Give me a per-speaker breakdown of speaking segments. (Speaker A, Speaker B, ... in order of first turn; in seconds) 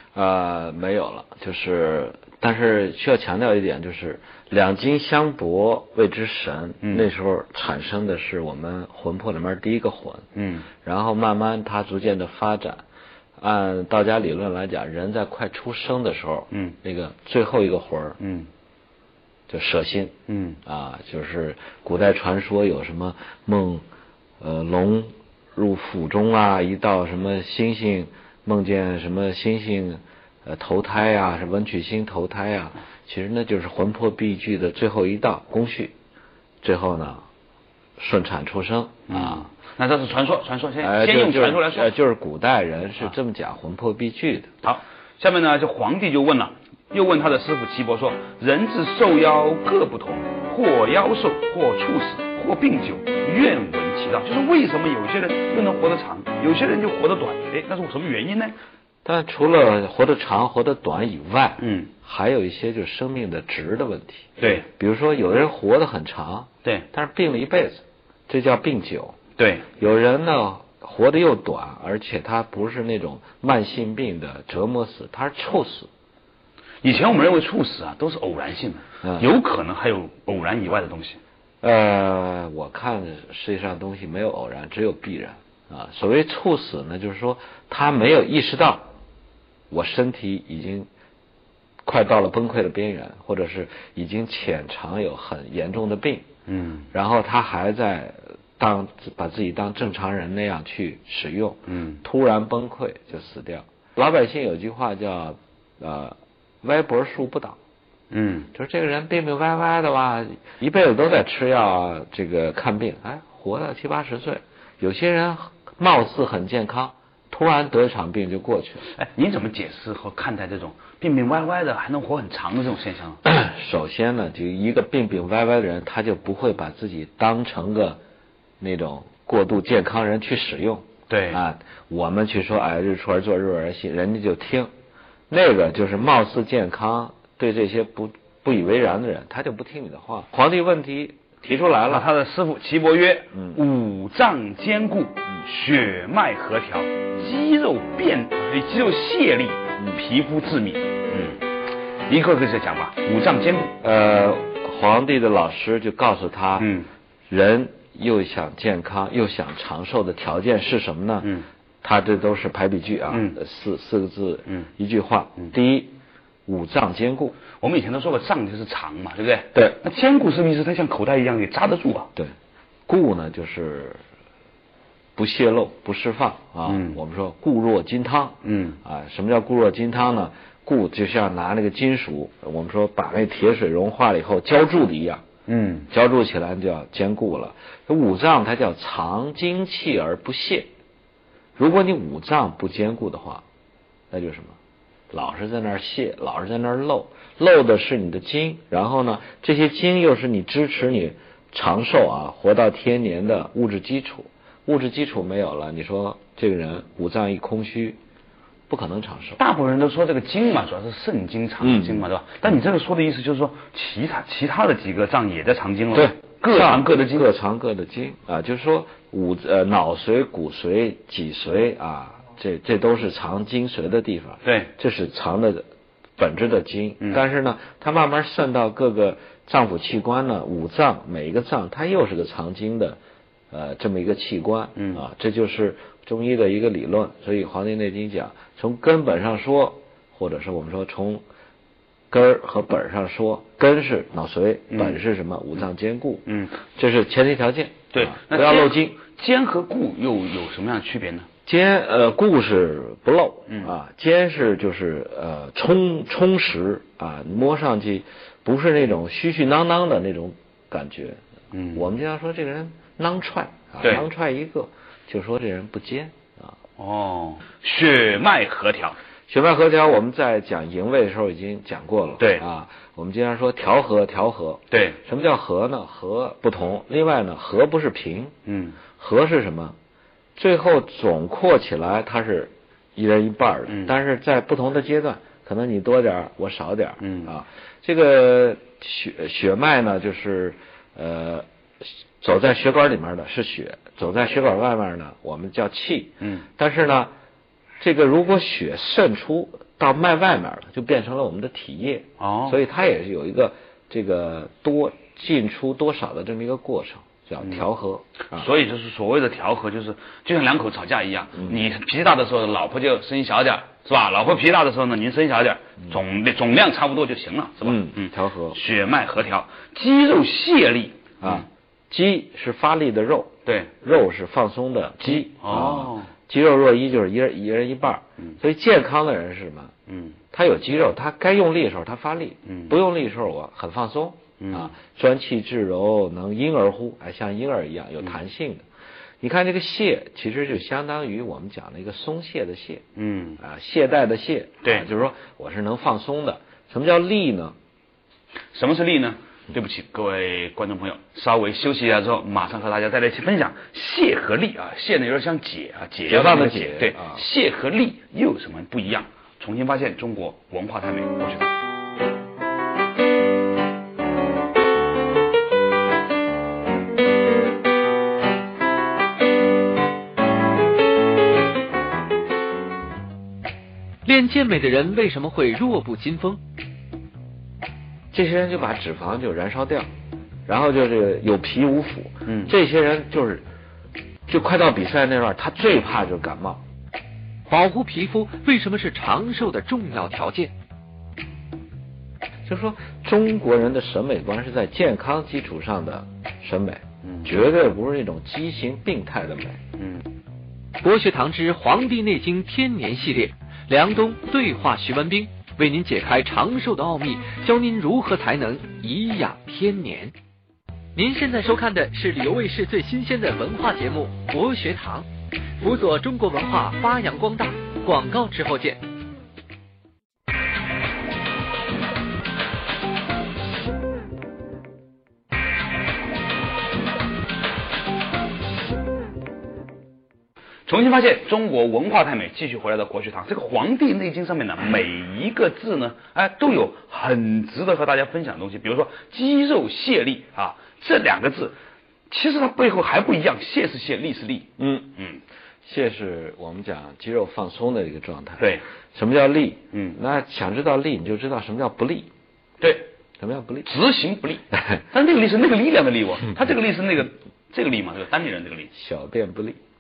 Speaker A: 0.1-10.2, 10.8-12.8, 13.4-18.2, 19.5-20.1, 20.6-23.8, 24.4-35.9, 36.6-37.2, 38.0-39.5, 40.8-44.5, 59.0-69.2, 69.8-75.9, 79.0-79.3, 81.6-88.8, 89.7-90.9, 91.8-96.3, 96.9-107.6, 108.5-118.8, 123.2-128.0, 128.6-134.7, 135.3-142.1, 143.3-143.6, 153.8-156.7, 157.3-165.9, 166.5-167.4, 172.9-174.0, 175.2-185.2, 185.9-190.7, 191.6-193.4, 194.1-194.6, 195.1-208.0, 208.7-209.4, 211.6-212.1, 215.9-225.7, 226.2-233.0, 233.5-241.2, 242.1-249.0, 251.4-261.2, 261.7-266.6, 269.3-278.3, 279.0-279.8, 280.4-297.1, 297.8-308.5, 311.4-311.6, 317.6-318.6, 321.2-329.7, 330.3-338.6, 339.2-342.8, 343.4-347.5, 356.1-357.2, 378.1-379.9, 380.5-383.4, 384.3-386.6, 392.5-399.6, 444.6-445.0, 445.6-452.1, 453.2-453.7, 454.5-454.8, 458.7-459.6
Speaker B: 6.8-7.1, 10.3-10.7, 16.5-16.8, 18.2-18.5, 20.3-20.6, 39.1-41.9, 44.6-58.6, 61.6-61.9, 64.4-64.7, 69.4-69.7, 76.8-81.2, 96.5-96.9, 101.7-102.0, 108.1-108.5, 118.8-123.2, 131.1-131.4, 141.9-151.4, 152.1-153.7, 156.6-156.9, 163.1-163.4, 167.6-172.1, 176.6-177.0, 178.4-178.8, 185.5-185.9, 209.4-217.3, 224.4-224.7, 234.8-235.0, 244.7-245.0, 246.2-246.6, 247.9-251.3, 253.5-253.7, 261.5-261.8, 266.8-269.0, 272.2-272.4, 274.7-275.0, 278.4-278.8, 287.0-287.3, 296.2-296.4, 302.2-302.6, 308.3-321.5, 323.4-323.7, 325.0-326.1, 329.9-330.2, 332.4-332.7, 334.4-334.7, 342.9-343.4, 348.5-361.5, 382.3-382.5, 397.0-397.3, 399.8-400.0, 430.7-441.5, 442.1-445.2, 448.4-448.6, 452.6-452.9, 453.6-458.7
Speaker C: 374.0-376.4, 387.5-390.5, 400.8-410.1, 410.9-415.1, 415.6-418.8